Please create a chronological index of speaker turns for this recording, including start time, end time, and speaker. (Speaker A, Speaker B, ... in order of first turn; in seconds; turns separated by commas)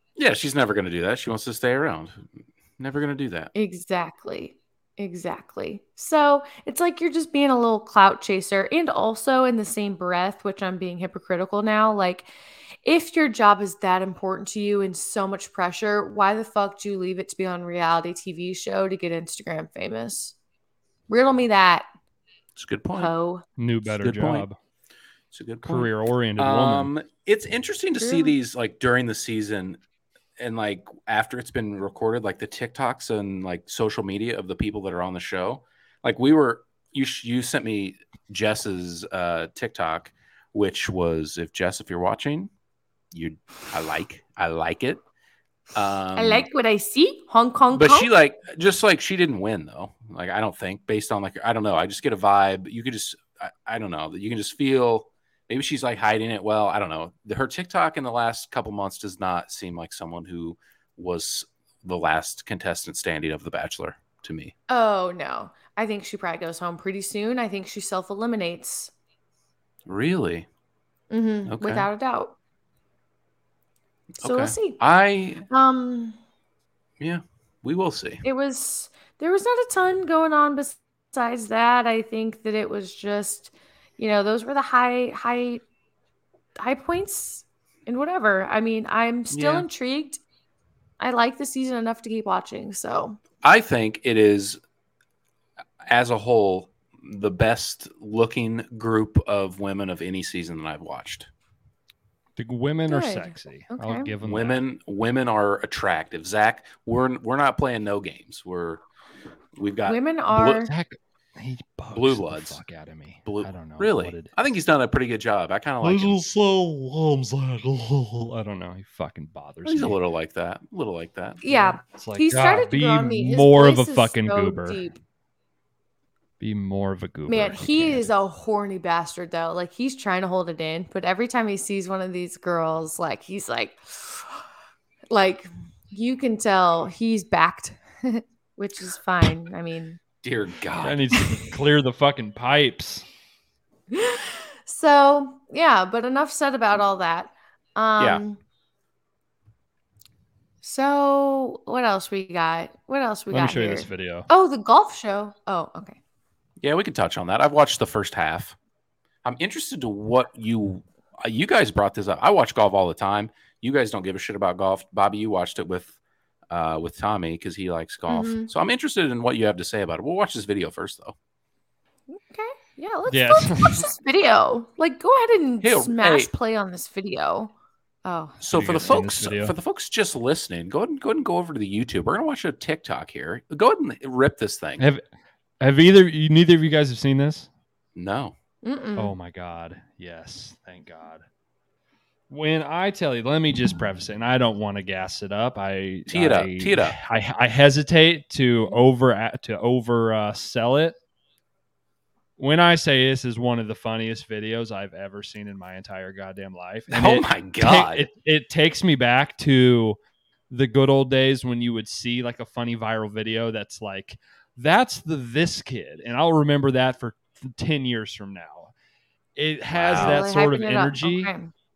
Speaker A: 0.2-3.5, Speaker B: 3.5-12.3, Speaker B: 12.8-20.3, Speaker B: 21.1-21.9, Speaker A: 22.6-23.1, Speaker B: 22.9-23.4, Speaker C: 23.6-24.5, Speaker A: 23.8-24.4, Speaker A: 25.3-29.8, Speaker C: 25.6-26.9, Speaker B: 28.0-28.3, Speaker A: 30.4-42.5, Speaker A: 43.1-45.0, Speaker A: 45.7-46.5, Speaker B: 46.1-48.1, Speaker A: 47.7-64.5, Speaker B: 64.7-68.9, Speaker A: 69.8-70.5, Speaker B: 71.1-72.3, Speaker A: 71.5-71.9, Speaker A: 74.2-75.4, Speaker B: 74.2-74.8, Speaker B: 75.5-76.2, Speaker A: 77.0-78.2, Speaker B: 78.2-85.6, Speaker B: 86.6-90.2, Speaker A: 89.3-89.7, Speaker B: 91.0-93.2, Speaker A: 93.4-94.6, Speaker A: 95.8-101.3, Speaker C: 102.4-104.6, Speaker B: 102.9-104.1, Speaker A: 104.2-108.8, Speaker A: 109.5-110.6, Speaker B: 109.8-110.7, Speaker C: 110.7-114.3, Speaker A: 111.9-112.6, Speaker A: 113.2-116.2, Speaker C: 115.8-120.0, Speaker A: 119.6-121.4, Speaker B: 121.4-125.0, Speaker C: 121.4-124.8, Speaker C: 126.4-128.1, Speaker B: 127.3-134.3, Speaker B: 135.1-140.0, Speaker A: 140.2-141.1, Speaker C: 140.8-143.1, Speaker B: 143.9-148.4, Speaker B: 150.6-156.0, Speaker C: 153.3-154.3, Speaker A: 156.6-158.6, Speaker A: 159.2-165.9, Speaker A: 166.5-171.2, Speaker B: 168.1-168.5, Speaker B: 172.1-177.5, Speaker C: 173.1-173.9, Speaker A: 175.6-176.3, Speaker B: 178.0-178.4, Speaker A: 178.4-184.9, Speaker C: 178.5-179.5, Speaker C: 185.6-187.5, Speaker A: 187.9-188.3, Speaker B: 188.6-189.1, Speaker C: 189.0-191.2, Speaker C: 192.3-200.9, Speaker A: 196.1-197.0, Speaker C: 202.4-210.0, Speaker A: 206.9-208.1, Speaker C: 210.5-218.7, Speaker C: 219.3-221.3, Speaker A: 219.7-220.3, Speaker B: 219.9-221.5